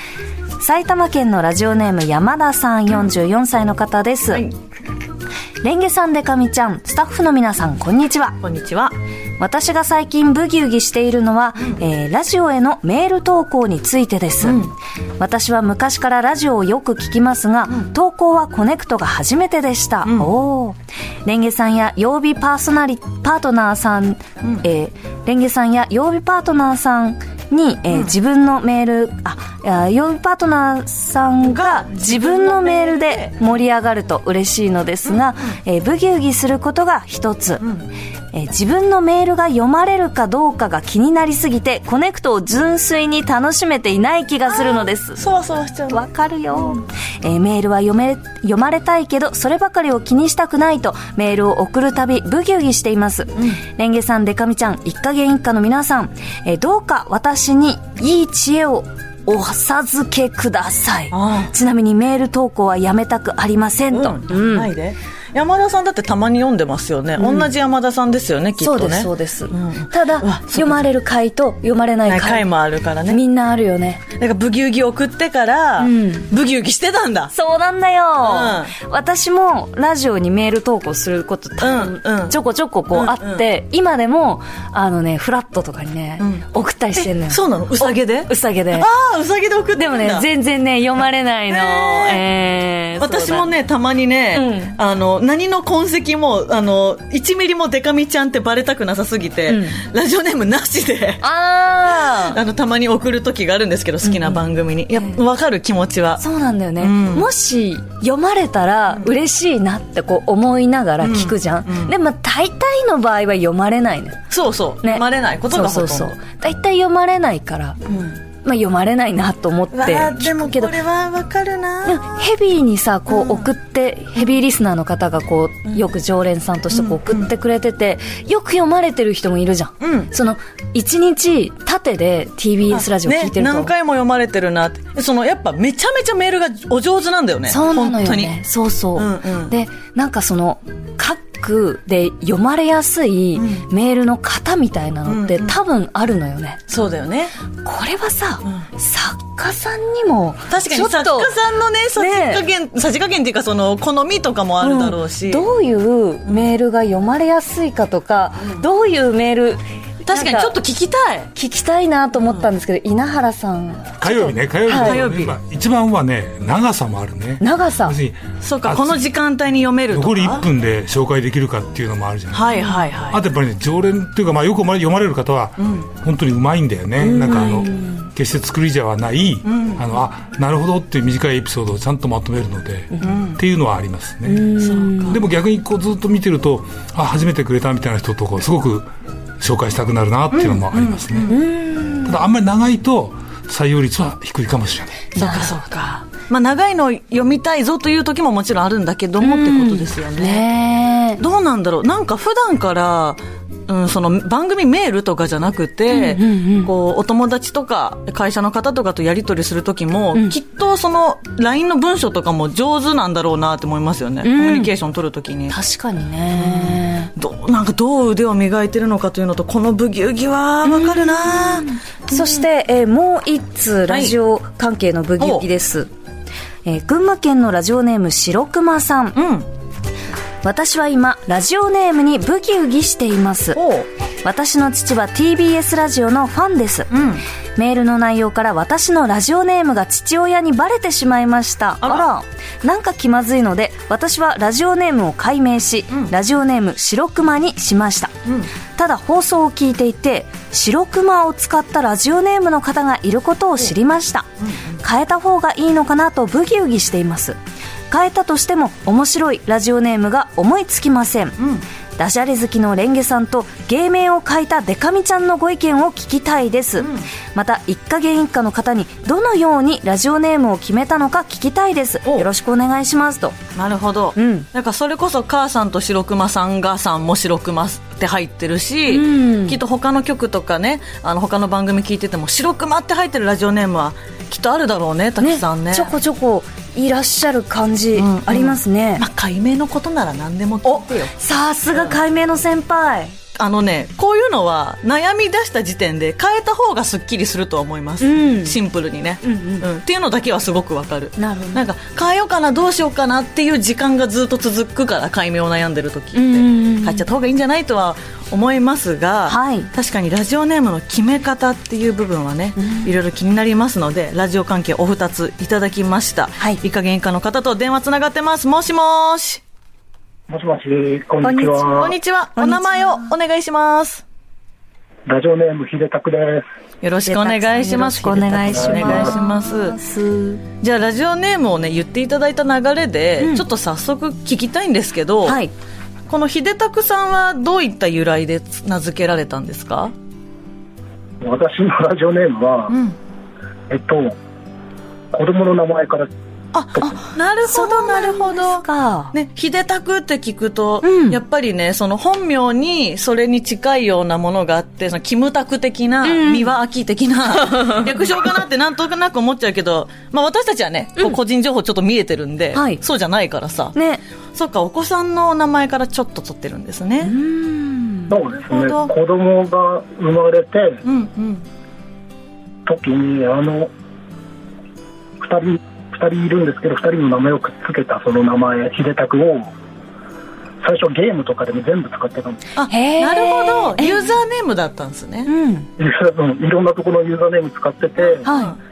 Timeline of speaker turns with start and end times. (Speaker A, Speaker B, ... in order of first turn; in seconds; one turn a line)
Speaker A: 0.6-4.5
Speaker A: 5.6-8.4
Speaker B: 8.4-8.9
Speaker A: 9.4-37.6
Speaker B: 14.4-14.7
Speaker B: 20.0-20.3
Speaker B: 31.4-33.4
Speaker A: 38.3-45.2
Speaker B: 44.5-46.0
Speaker A: 45.9-64.7
Speaker B: 61.1-61.5
Speaker B: 63.9-70.8
Speaker A: 67.2-67.5
Speaker A: 68.6-72.5
Speaker B: 72.1-73.2
Speaker A: 73.1-74.0
Speaker B: 74.2-77.3
Speaker A: 75.8-76.3
Speaker A: 77.3-88.9
Speaker B: 78.2-78.7
Speaker B: 81.6-82.4
Speaker B: 82.9-83.5
Speaker B: 86.2-86.5
Speaker B: 87.0-90.3
Speaker A: 89.8-93.5
Speaker B: 91.5-92.2
Speaker B: 93.0-101.2
Speaker A: 94.3-94.8
Speaker A: 99.5-99.8
Speaker A: 101.2-102.4
Speaker B: 102.2-106.2
Speaker A: 104.0-104.4
Speaker A: 106.2-114.2
Speaker B: 106.8-107.3
Speaker B: 111.0-111.9
Speaker B: 114.3-116.2
Speaker A: 114.8-117.8
Speaker B: 117.9-118.2
Speaker A: 118.4-120.8
Speaker B: 119.7-122.0
Speaker A: 121.9-133.7
Speaker B: 123.1-123.5
Speaker B: 126.7-127.3
Speaker B: 129.8-130.1
Speaker B: 132.7-138.4
Speaker A: 137.5-146.6
Speaker B: 138.9-139.5
Speaker B: 143.3-143.7
Speaker B: 145.1-145.6
Speaker B: 146.7-147.3
Speaker A: 147.6-151.3
Speaker B: 150.5-155.5
Speaker A: 152.0-152.4
Speaker A: 154.6-160.5
Speaker B: 160.1-161.3
Speaker A: 161.3-165.0
Speaker C: 164.0-169.0
Speaker B: 164.7-165.3
Speaker A: 167.4-168.0
Speaker B: 168.4-170.5
Speaker C: 169.9-172.6
Speaker B: 172.3-173.2
Speaker C: 173.1-184.6
Speaker B: 175.6-175.9
Speaker A: 177.0-178.1
Speaker B: 179.4-179.8
Speaker B: 183.0-183.4
Speaker A: 184.2-185.2
Speaker B: 184.6-185.2
Speaker C: 185.1-188.9
Speaker C: 189.4-191.4
Speaker B: 190.3-191.4
Speaker A: 191.3-192.2
Speaker C: 192.0-195.1
Speaker A: 195.1-195.6
Speaker B: 195.1-200.4
Speaker A: 199.2-201.2
Speaker B: 201.2-215.6
Speaker A: 205.9-206.7
Speaker A: 214.2-214.7
Speaker A: 215.5-217.1
Speaker B: 216.4-222.4
Speaker A: 220.6-225.9
Speaker B: 223.9-224.1
Speaker B: 225.2-225.5
Speaker A: 226.6-229.2
Speaker B: 229.2-229.5
Speaker A: 230.4-233.6
Speaker B: 233.5-233.9
Speaker A: 234.2-236.9
Speaker B: 236.9-237.2
Speaker A: 237.6-248.1
Speaker A: 248.8-254.3
Speaker B: 254.4-254.8
Speaker A: 254.8-257.4
Speaker A: 257.9-261.4
Speaker A: 262.0-273.4
Speaker B: 266.8-267.1
Speaker B: 273.5-285.9
Speaker A: 274.1-274.5
Speaker A: 278.9-279.6
Speaker A: 285.2-289.0
Speaker B: 287.9-291.1
Speaker A: 290.6-293.1
Speaker B: 291.7-292.0
Speaker B: 293.4-319.4
Speaker A: 298.0-298.6
Speaker A: 299.2-299.6
Speaker A: 301.2-301.6
Speaker A: 306.1-307.0
Speaker A: 309.3-309.7
Speaker A: 312.6-312.9
Speaker D: 320.3-322.0
Speaker A: 321.2-321.7
Speaker B: 321.7-324.0
Speaker A: 322.4-323.1
Speaker D: 325.1-326.5
Speaker B: 326.8-329.8
Speaker A: 327.0-330.4
Speaker D: 328.5-329.1
Speaker B: 330.6-335.4
Speaker A: 335.2-335.5
Speaker B: 336.1-339.9
Speaker D: 341.2-342.8
Speaker B: 342.7-342.9
Speaker D: 343.7-344.2
Speaker D: 345.1-346.1
Speaker B: 346.5-363.8
Speaker A: 346.8-349.1
Speaker A: 350.8-351.2
Speaker A: 356.0-356.5
Speaker A: 357.5-357.9
Speaker A: 362.5-362.8
Speaker A: 363.8-364.0
Speaker B: 364.4-367.1
Speaker A: 367.0-368.1
Speaker D: 368.1-370.8
Speaker B: 368.3-368.9
Speaker B: 370.9-371.4
Speaker D: 372.6-373.7
Speaker D: 375.2-379.5
Speaker D: 380.6-382.4
Speaker B: 382.6-385.3
Speaker A: 382.7-384.1
Speaker A: 385.3-385.7
Speaker D: 385.8-388.3
Speaker B: 388.1-388.6
Speaker A: 388.2-388.6